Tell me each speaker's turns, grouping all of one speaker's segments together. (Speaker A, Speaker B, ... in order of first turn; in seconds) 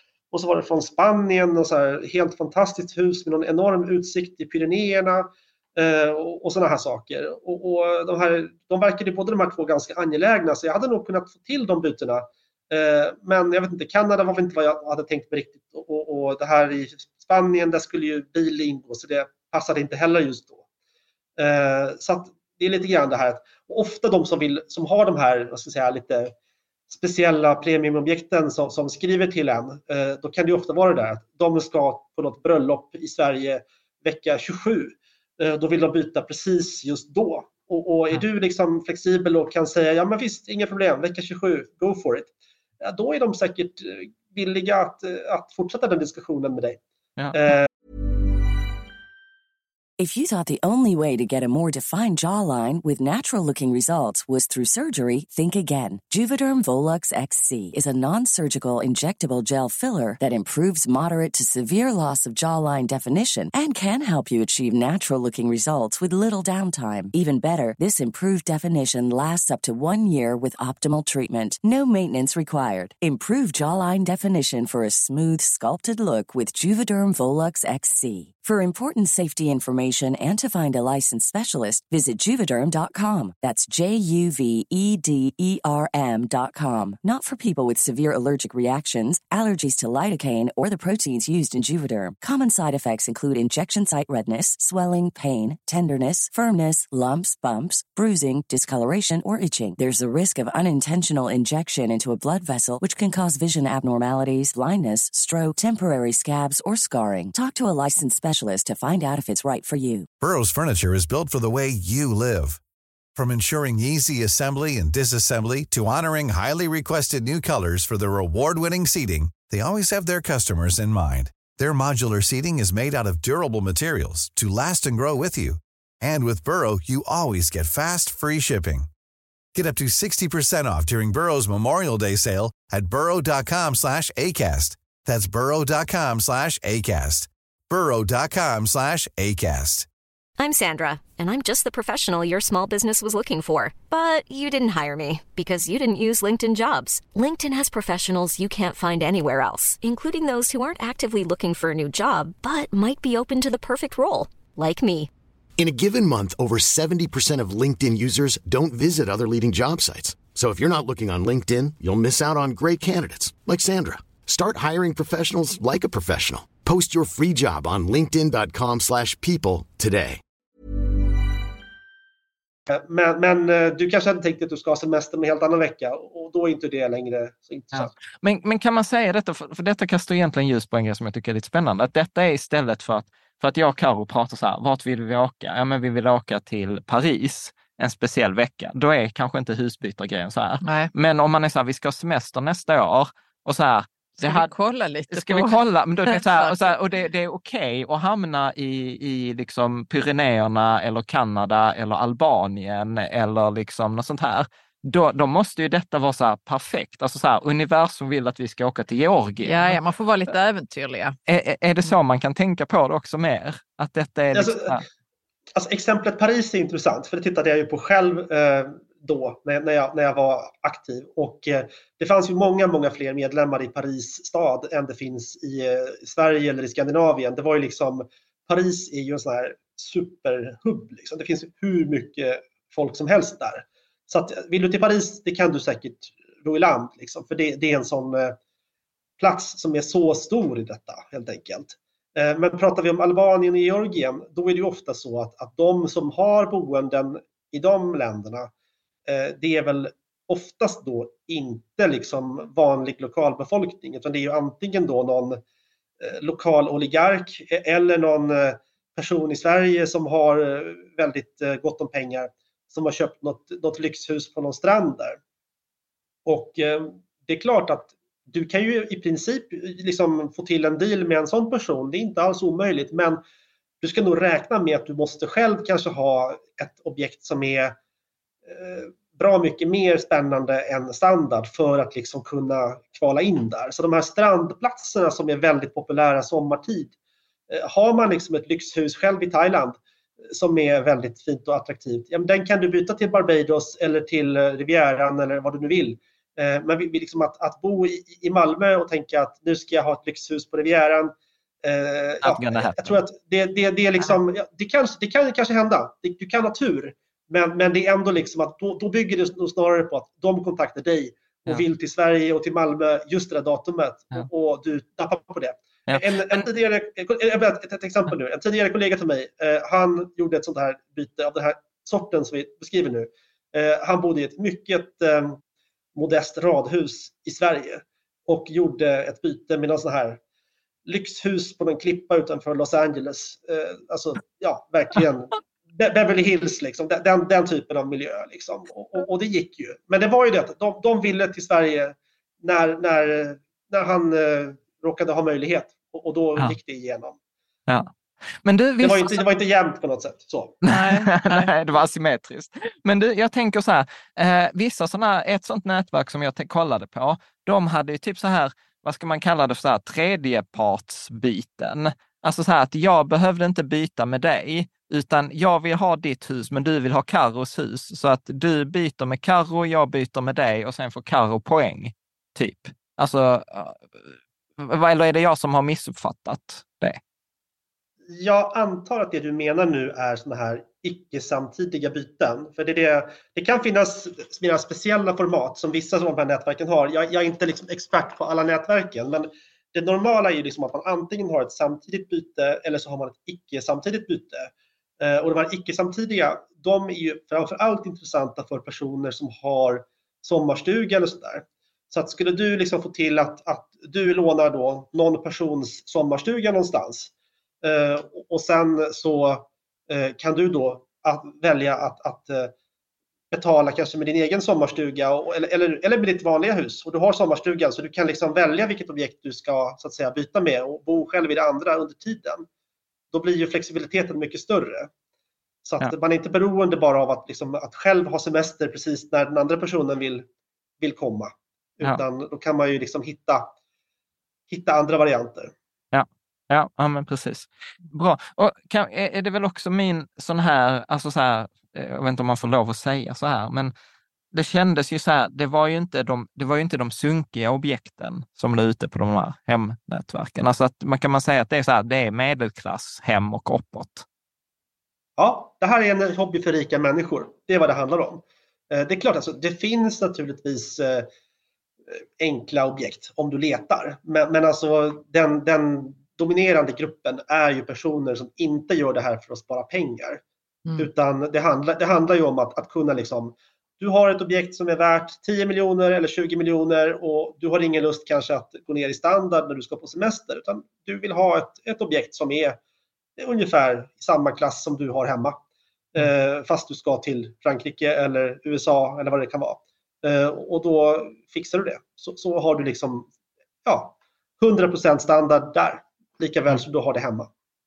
Speaker A: 0.3-20.6, 21.4-26.3, 26.9-46.8, 47.4-47.7, 172.7-177.9, 214.3-214.8, 215.6-238.4, 239.2-248.5, 249.1-255.4, 256.0-265.2, 266.3-273.2, 273.8-277.8, 278.5-286.9, 287.5-289.8, 290.3-325.4, 326.0-330.2, 330.9-347.2, 348.8-350.6, 378.1-394.5, 395.0-407.1, 407.6-412.5, 413.3-422.5, 423.1-424.9, 425.6-430.2, 430.8-433.5, 434.5-435.5, 455.2-461.1, 462.2-470.2, 470.8-482.6, 483.2-485.4, 485.9-493.1, 493.7-497.3
Speaker B: 50.0-110.1
Speaker C: 110.2-112.6, 113.2-128.9, 129.6-139.9
Speaker D: 140.4-155.1
Speaker E: 155.6-170.2
Speaker F: 177.7-194.5, 195.1-209.8, 211.3-214.8, 302.2-303.0, 315.9-316.4, 347.7-349.2, 350.7-377.0, 435.9-443.7, 444.3-454.1
Speaker G: 190.6-190.9, 194.2-196.7, 209.4-211.2, 350.7-351.5